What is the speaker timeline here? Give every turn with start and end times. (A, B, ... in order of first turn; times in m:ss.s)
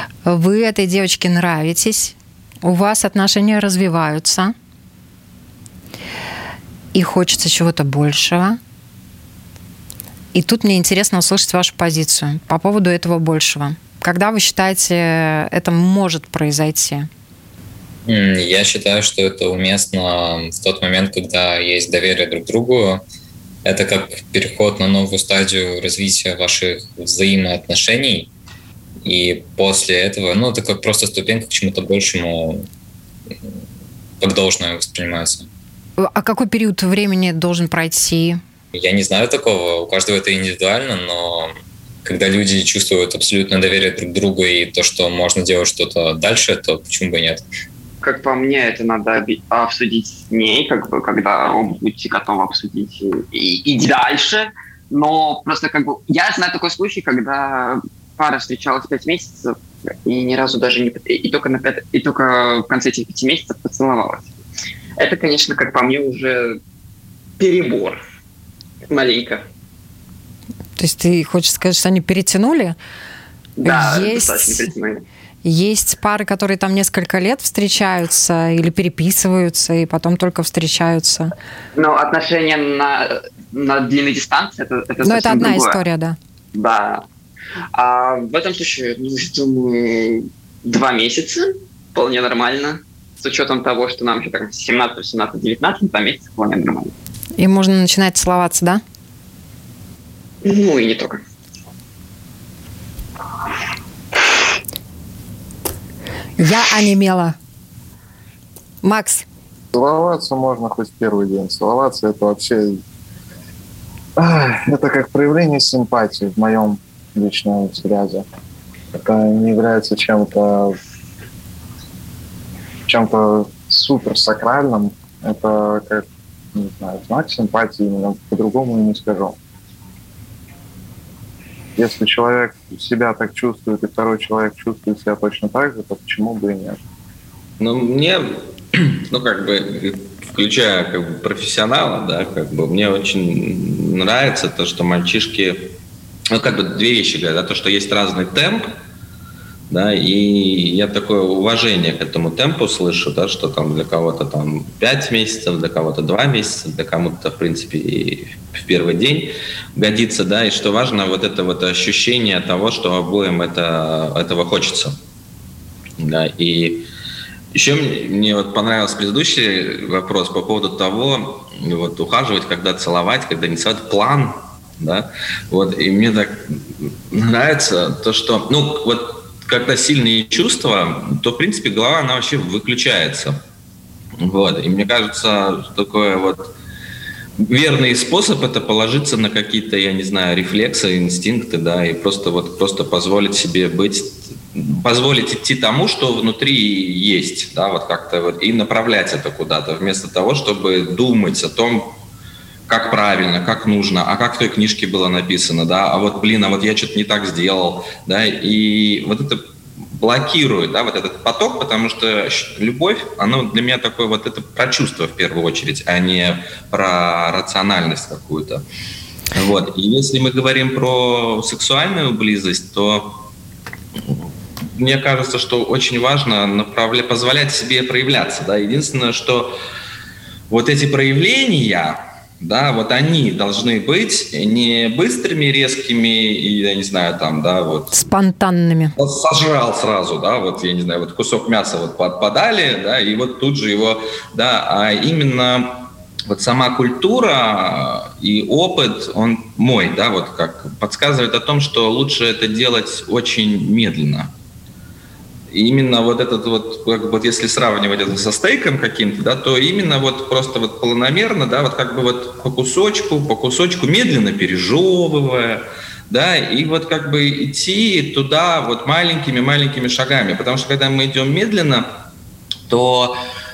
0:00.2-0:04.5 A
0:06.9-0:08.6 A
0:10.3-0:17.1 A
0:18.0-0:23.0 B
0:23.6-0:28.3 B
0:29.0-0:32.7 B
0:34.2-0:35.5 B
0:36.0-0:38.4 A
0:38.7-0:41.5 B
0:42.0-0:47.4 B
0:48.0-1:04.3 C
1:05.0-1:06.6 C
1:07.4-1:08.0 C
1:08.9-1:09.4 C
1:10.8-1:12.8 A
1:13.6-1:15.0 C
1:13.6-1:14.7 A
1:15.4-1:21.3 A
1:21.7-1:25.8 C
1:25.0-1:26.2 A
1:26.5-1:27.0 C
1:27.7-1:36.9 C
1:37.4-1:38.8 A
1:40.4-1:41.2 C
1:46.4-1:47.4 A
1:48.8-1:49.2 A
1:49.7-1:52.8 D
1:54.2-1:58.2 D
1:58.9-2:00.8 D
2:02.9-2:09.4 D
2:11.8-2:16.8 D
2:17.6-2:25.7 E
2:26.3-2:28.7 E
2:29.7-2:45.0 E
2:46.0-2:46.8 E
2:47.5-3:03.4 E
3:04.2-3:06.5 E
3:07.4-3:21.9 E
3:22.7-3:29.4 E
3:30.0-3:38.6 E
3:39.3-3:43.2 E
3:44.0-3:49.6 E
3:50.5-3:58.0 E
3:57.9-3:58.9 A
3:59.0-4:14.3 E
4:15.5-4:31.9 E
4:32.7-4:33.2 E